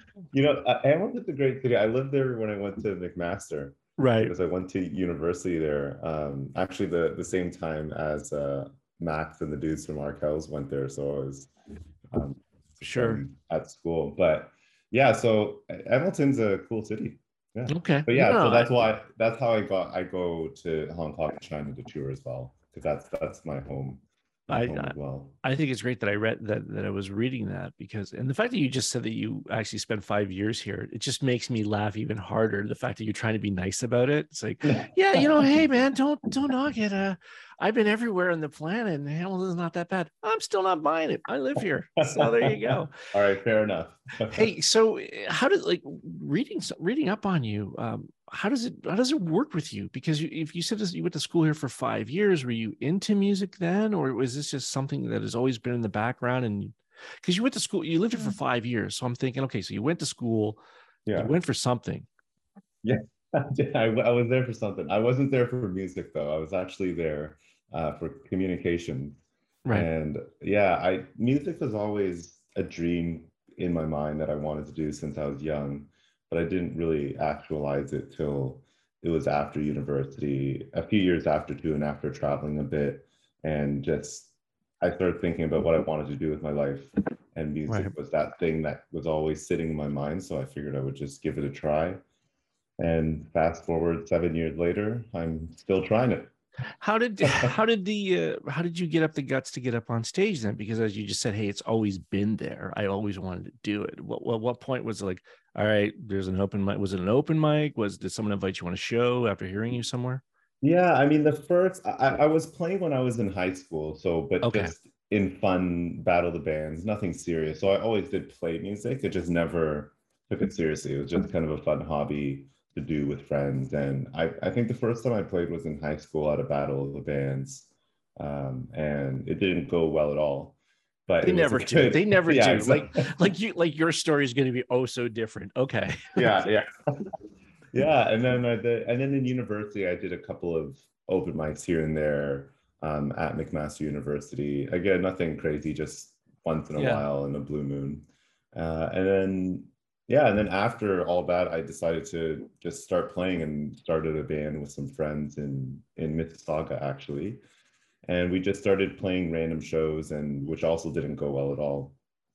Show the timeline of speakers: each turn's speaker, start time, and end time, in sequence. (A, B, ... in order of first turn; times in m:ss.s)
0:00.3-0:11.5 A
0:04.0-0:04.4 B
0:12.1-0:25.4 A
0:12.8-0:13.2 B
0:17.7-0:18.8 B
0:24.5-0:43.0 B
0:34.7-0:35.6 A
0:42.0-0:44.5 A
0:44.3-1:00.6 B
1:01.1-1:01.3 A
1:01.2-1:02.1 B
1:02.8-1:09.2 A
1:09.7-1:32.0 A
1:27.7-1:28.0 B
1:32.8-1:36.3 A
1:36.8-1:50.2 B
1:37.2-1:37.5 A
1:50.6-2:13.1 A
1:54.4-1:54.7 B
2:11.2-2:16.4 B
2:16.2-2:17.0 A
2:17.7-2:37.4 A
2:26.8-2:27.1 B
2:38.1-2:42.0 A